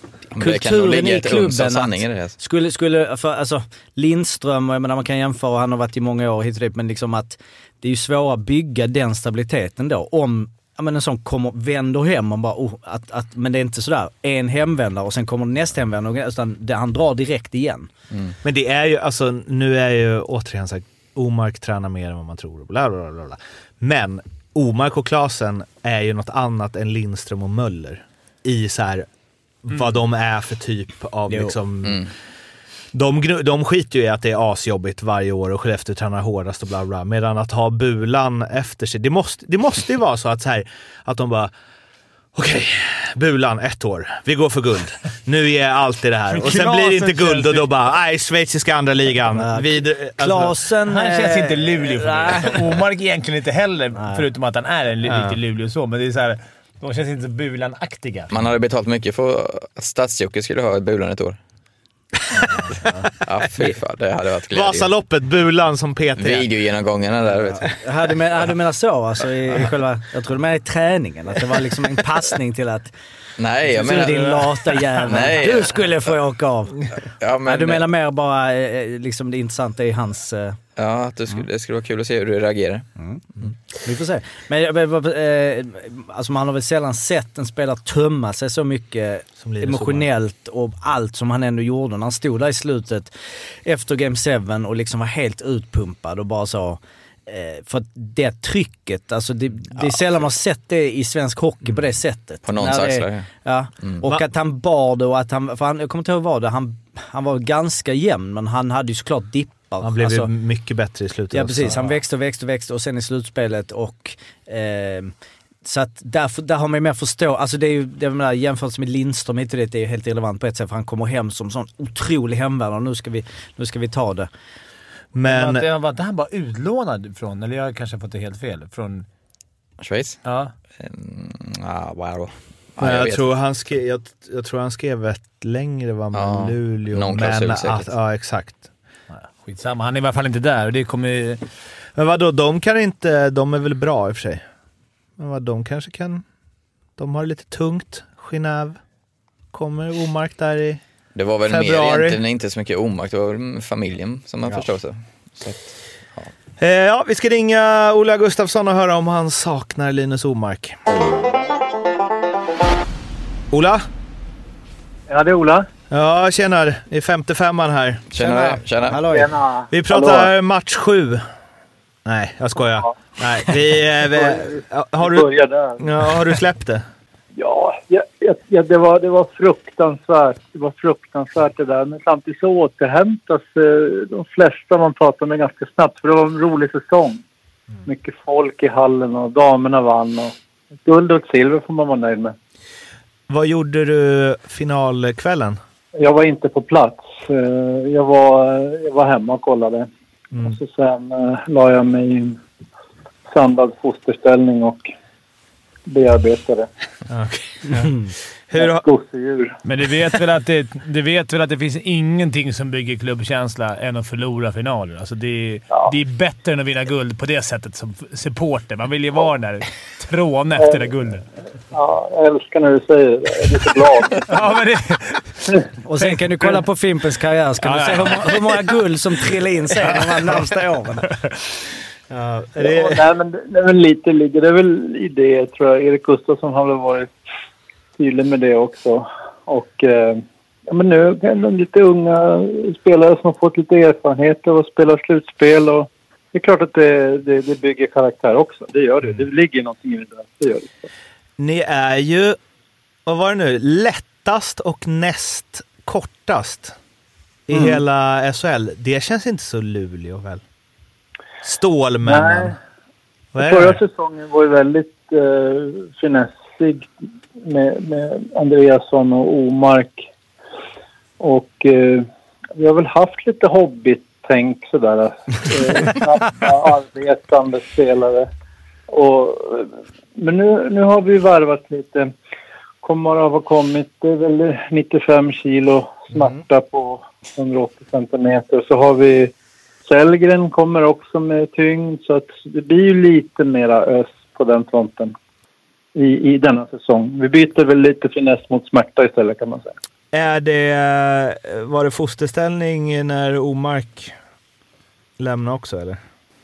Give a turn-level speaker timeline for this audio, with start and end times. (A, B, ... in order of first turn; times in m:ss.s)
0:00.3-0:02.4 A
0:00.4-0:17.9 B
0:18.4-0:29.1 C
0:29.6-0:32.1 C
0:31.3-0:31.6 B
0:31.8-0:32.1 A
0:32.9-0:41.5 C
0:42.4-0:50.6 C
0:46.3-0:47.7 D
0:49.3-0:52.7 B
0:50.9-0:58.3 D
0:54.0-0:54.2 B
0:55.0-0:55.4 C
0:58.3-1:01.4 A
1:03.2-1:04.9 A
1:04.5-1:06.5 C
1:06.2-1:07.8 A
1:07.6-1:12.9 B
1:13.4-1:16.1 A
1:13.7-1:16.9 B
1:17.2-1:17.9 A
1:17.4-1:20.6 B
1:20.8-1:22.9 A
1:23.0-1:23.2 B
1:23.8-1:50.3 B
1:29.4-1:30.1 C
1:42.4-1:43.3 A
1:49.8-1:51.9 C
1:51.3-1:55.1 B
1:55.6-2:04.3 B
2:05.1-2:05.7 C
2:05.3-2:09.1 D
2:09.8-2:10.2 A
2:10.2-2:10.5 D
2:10.8-2:13.3 A
2:12.8-2:18.7 C
2:16.1-2:17.9 A
2:19.1-2:21.4 D
2:22.0-2:24.4 C
2:25.2-2:26.2 C
2:27.0-2:28.8 C
2:29.5-2:30.8 C
2:31.2-2:35.6 A
2:31.4-2:32.2 C
2:36.6-2:40.8 C
2:43.5-2:43.9 C
2:45.1-2:45.7 E
2:45.9-2:48.5 C
2:48.1-2:49.0 A
2:48.8-2:49.3 B
2:49.0-2:50.3 E
2:49.7-2:51.2 C
2:52.0-2:55.3 C
2:52.8-2:53.1 E
2:54.1-2:55.8 E
2:55.8-2:56.8 C
2:57.4-3:07.2 E
3:07.8-3:10.3 E
3:10.9-3:12.4 E
3:13.3-3:15.6 C
3:16.0-3:19.9 E
3:20.4-3:22.4 E
3:23.3-3:24.9 E
3:25.9-3:26.7 E
3:27.1-3:28.8 C
3:28.6-3:29.6 E
3:29.6-3:41.3 D
3:40.6-3:40.9 E
3:41.7-3:44.3 E
3:44.2-3:46.6 D
3:45.8-3:51.1 B
3:47.6-3:48.8 D
3:49.8-3:50.5 D
3:51.0-3:51.3 D
3:52.1-3:53.1 C
3:52.6-3:57.1 E
3:58.0-4:10.9 E
4:11.4-4:12.4 C
4:13.1-4:16.8 C
4:17.5-4:20.4 C
4:17.5-4:17.8 B
4:21.4-4:22.6 C
4:22.0-4:22.6 E
4:23.4-4:23.8 C
4:23.4-4:26.9 E
4:27.4-4:30.1 E
4:31.2-4:38.3 E
4:38.9-4:42.1 E
4:42.8-4:49.3 E
4:49.9-4:55.1 E
4:56.0-4:59.7 E
5:00.1-5:04.1 C
5:05.2-5:06.0 C